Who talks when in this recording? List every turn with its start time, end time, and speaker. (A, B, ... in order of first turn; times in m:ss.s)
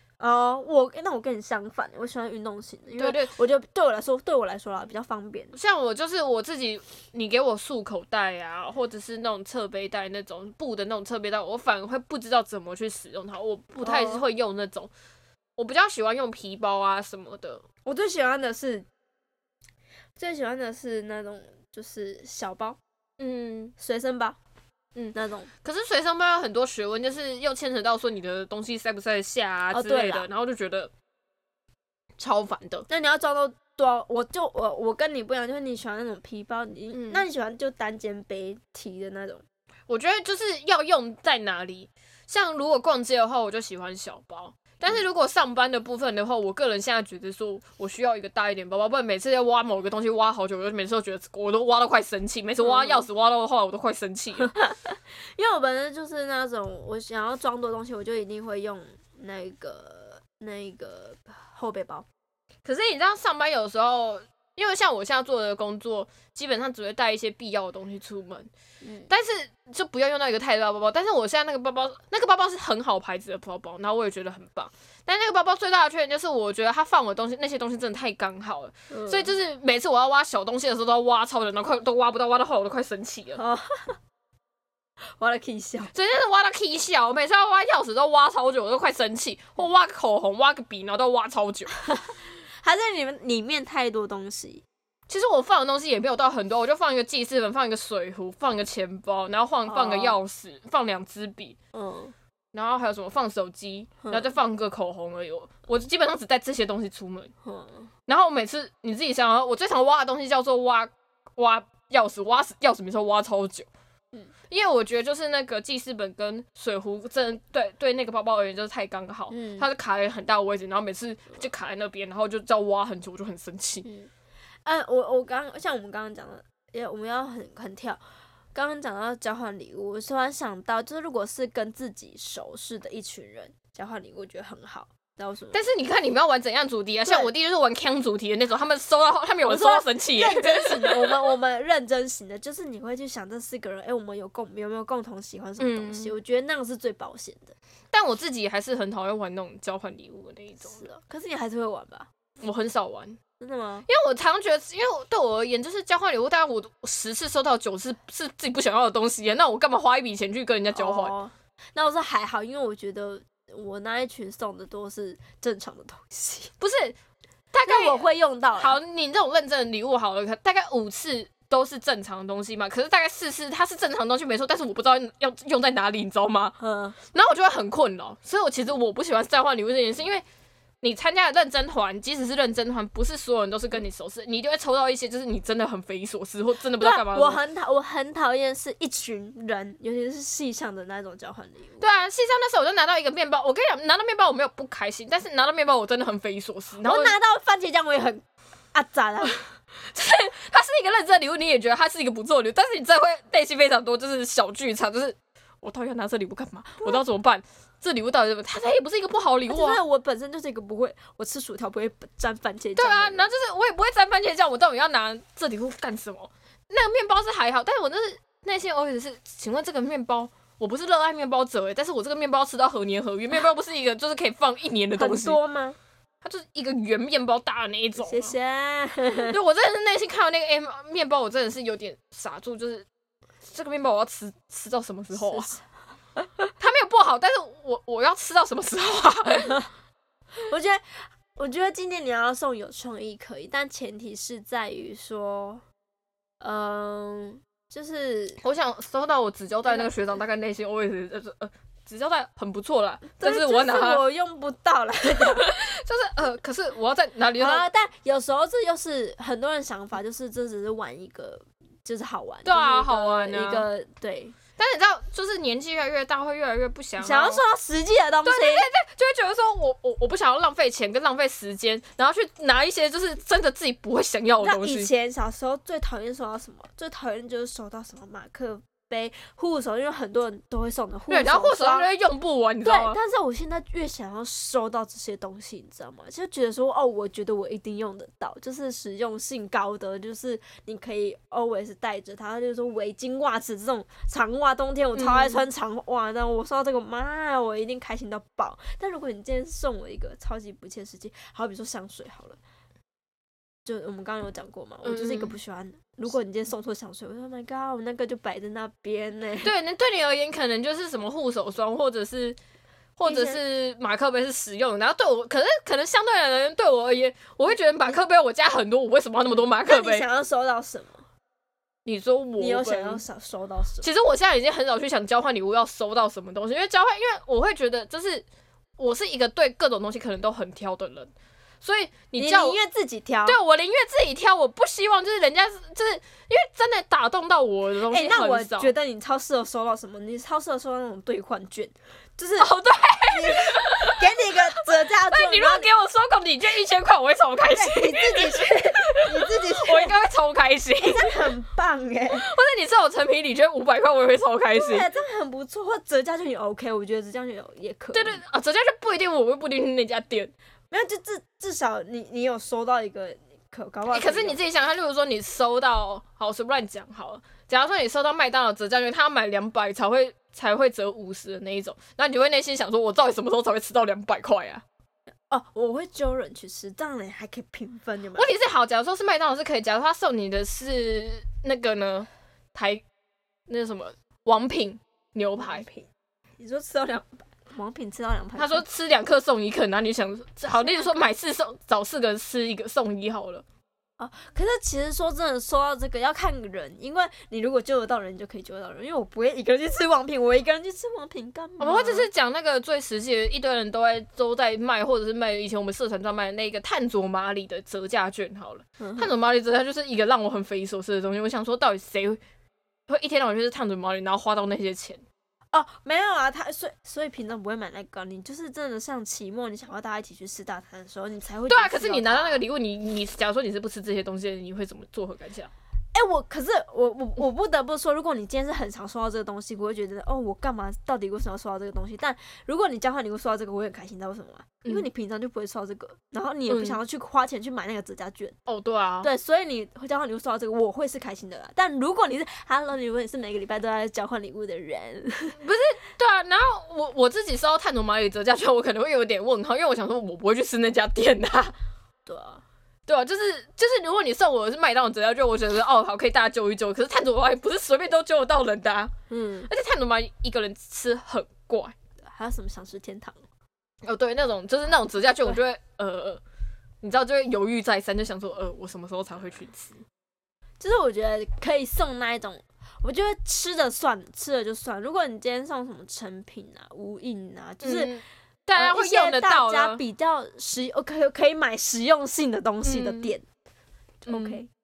0:00.2-0:05.5 A
0:03.0-0:03.3 B
0:05.5-0:14.9 B
0:13.8-0:14.2 A
0:15.6-0:17.6 B
0:17.8-0:18.9 A
0:20.2-0:22.8 A
0:23.2-0:23.7 B
0:23.8-0:24.4 A
0:24.9-0:30.9 B
0:25.1-0:25.5 A
0:29.7-0:30.3 A
0:32.2-0:32.8 B
0:32.9-0:39.4 A
0:36.9-0:37.2 B
0:39.9-0:54.5 B
0:52.6-0:53.0 A
0:54.4-1:02.1 A
1:02.6-1:08.5 B
1:08.8-1:09.1 A
1:09.1-1:23.4 B
1:18.9-1:19.3 A
1:23.4-1:24.0 A
1:25.2-1:25.9 A
1:25.9-1:31.7 B
1:31.8-1:34.6 A
1:35.1-1:41.6 B
1:39.7-1:40.2 A
1:41.7-1:42.1 A
1:42.5-1:47.3 B
1:44.0-1:44.3 A
1:47.4-1:47.9 A
1:48.1-1:53.7 B
1:54.5-2:03.8 B
1:59.3-1:59.7 A
2:03.8-2:04.1 A
2:04.6-2:08.0 A
2:08.5-2:15.7 A
2:15.5-2:21.2 B
2:17.0-2:17.3 A
2:19.4-2:27.5 A
2:25.6-2:26.1 B
2:27.9-2:30.9 B
2:30.6-2:32.1 A
2:32.4-2:33.2 B
2:33.4-2:33.8 A
2:33.9-2:41.1 B
2:40.7-2:46.5 A
2:46.6-2:47.0 B
2:47.5-2:48.0 B
2:47.6-2:48.8 A
2:48.5-2:56.6 B
2:56.6-2:57.0 A
2:57.1-3:00.2 B
3:00.8-3:07.4 B
3:06.8-3:11.8 A
3:11.8-3:17.2 B
3:16.8-3:19.4 A
3:19.9-3:29.8 B
3:29.5-3:33.3 A
3:32.8-3:45.4 B
3:45.0-3:45.8 A
3:46.2-3:48.3 B
3:48.0-3:49.3 A
3:49.2-3:52.8 B
3:53.4-3:55.5 B
3:55.1-3:55.6 A
3:56.6-3:59.7 B
4:00.5-4:05.6 A
4:06.4-4:08.4 A
4:08.4-4:14.0 B
4:13.2-4:15.5 A
4:15.2-4:17.7 B
4:17.4-4:24.4 A
4:22.4-4:23.6 B
4:24.6-4:27.4 B
4:27.0-4:28.6 A
4:28.2-4:34.9 B
4:34.4-4:41.9 A
4:41.1-4:43.0 B
4:42.6-5:02.4 A
4:54.9-4:55.4 B
5:03.6-5:09.5 A
5:04.8-5:05.3 B
5:09.4-5:12.4 B
5:13.0-5:20.0 B
5:13.0-5:13.4 A
5:19.6-5:21.0 A
5:21.8-5:23.0 B
5:22.4-5:23.9 A
5:23.8-5:28.2 B
5:28.8-5:31.1 B
5:31.6-5:32.6 B
5:32.2-5:33.4 A
5:33.2-5:38.7 B
5:37.9-5:42.5 A
5:42.4-5:51.2 B
5:43.1-5:45.7 A
5:47.5-5:49.9 A
5:50.8-5:52.2 A
5:52.1-5:54.9 B
5:54.5-5:58.2 A
5:57.9-6:00.3 B
6:00.7-6:04.4 A
6:03.9-6:14.6 B
6:15.3-6:18.3 A
6:18.1-6:22.8 B
6:23.5-6:25.7 B
6:25.4-6:28.6 A
6:28.4-6:33.4 B
6:34.0-6:42.1 A
6:41.6-6:52.2 B
6:48.8-6:49.1 A
6:52.9-6:55.0 B
6:55.5-7:02.4 A
7:01.5-7:05.5 B
7:05.9-7:18.4 A
7:16.5-7:16.8 B
7:18.5-7:19.1 B
7:19.0-7:25.4 A
7:25.4-7:31.5 B
7:32.0-7:32.4 A
7:32.9-7:38.9 B
7:39.1-7:39.5 A
7:39.5-7:41.8 B
7:42.0-7:43.2 A
7:43.8-7:46.2 B
7:46.8-7:49.8 B
7:50.6-7:57.9 A
7:57.6-7:59.8 B
7:58.5-8:03.2 A
8:02.6-8:03.1 B
8:04.0-8:04.5 A
8:04.1-8:04.4 B